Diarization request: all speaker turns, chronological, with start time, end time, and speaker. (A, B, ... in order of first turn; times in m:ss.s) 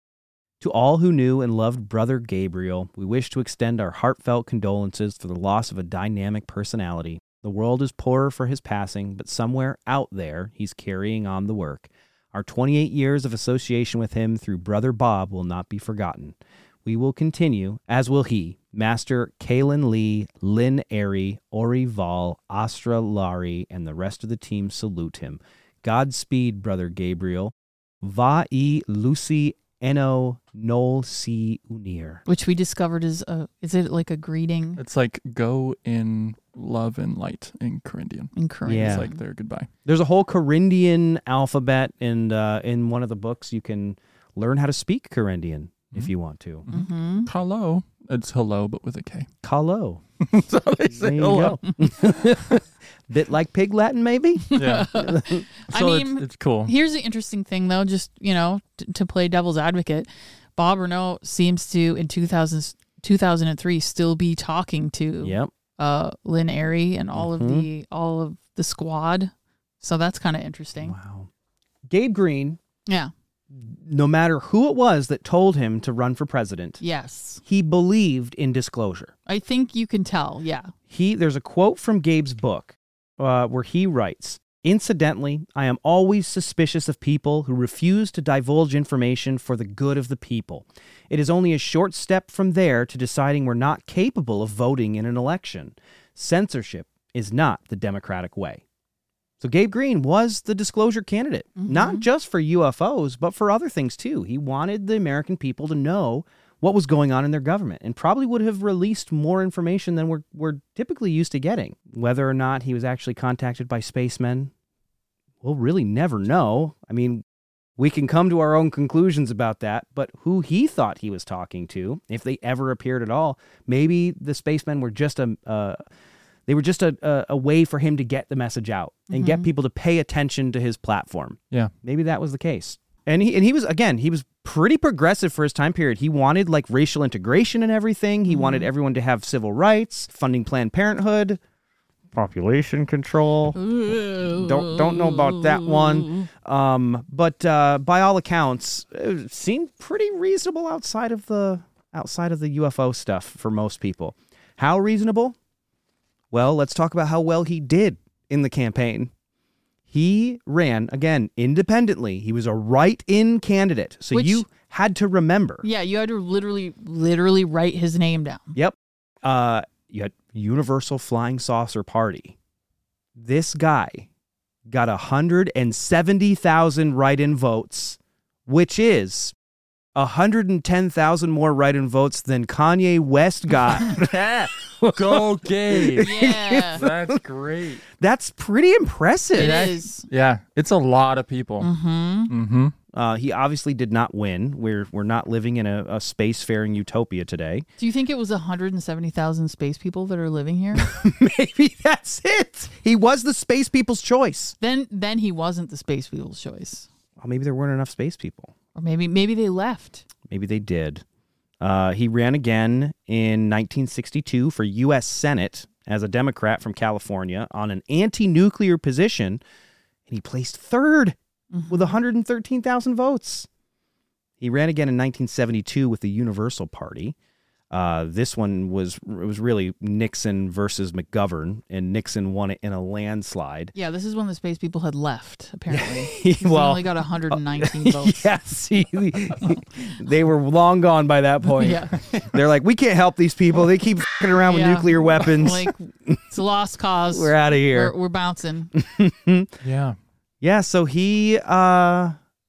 0:00.6-0:32.2 A
0:32.2-0:34.8 B
0:34.8-0:39.7 C
0:38.4-0:39.2 B
0:38.7-0:39.1 A
0:39.8-0:46.6 A
0:46.6-0:49.3 C
0:46.7-0:47.3 B
0:49.4-0:50.0 A
0:50.2-0:52.2 C
0:50.8-0:55.4 A
0:54.5-1:11.0 B
0:54.5-0:54.9 C
0:55.6-0:56.7 C
1:05.2-1:05.5 A
1:07.1-1:07.7 A
1:10.8-1:11.3 A
1:11.9-1:12.6 A
1:12.9-1:13.1 B
1:13.5-1:16.8 A
1:16.8-1:17.4 B
1:17.4-1:19.1 A
1:19.3-1:20.7 B
1:20.9-1:38.6 A
1:39.4-1:54.5 A
1:41.6-1:42.0 B
1:55.4-1:57.2 A
1:57.8-2:05.8 A
2:06.5-2:21.4 A
2:09.1-2:09.5 B
2:18.3-2:18.7 B
2:22.1-2:23.6 A
2:23.7-2:24.4 B
2:24.2-2:35.4 A
2:36.3-2:39.1 A
2:39.9-2:45.6 A
2:44.1-2:44.4 B
2:45.6-2:48.6 B
2:48.5-2:52.4 A
2:53.1-2:54.1 A
2:54.7-2:59.3 A
2:59.9-3:07.2 A
3:03.9-3:07.8 C
3:06.0-3:06.8 B
3:07.8-3:09.7 A
3:09.3-3:10.1 B
3:09.4-3:11.7 C
3:11.6-3:12.3 B
3:12.3-3:12.7 C
3:12.9-3:17.7 A
3:17.8-3:20.9 B
3:20.8-3:24.6 A
3:24.6-3:26.9 B
3:27.2-3:28.5 A
3:28.7-3:30.0 B
3:30.3-3:31.0 A
3:31.6-3:39.4 A
3:40.1-3:41.2 A
3:41.5-3:42.0 B
3:41.7-3:43.5 A
3:44.4-3:47.1 A
3:47.7-3:53.7 A
3:53.7-3:58.3 B
3:55.7-4:06.2 A
4:01.6-4:02.0 B
4:04.4-4:08.7 B
4:07.1-4:07.9 A
4:08.7-4:09.5 A
4:09.6-4:10.0 C
4:10.4-4:12.2 A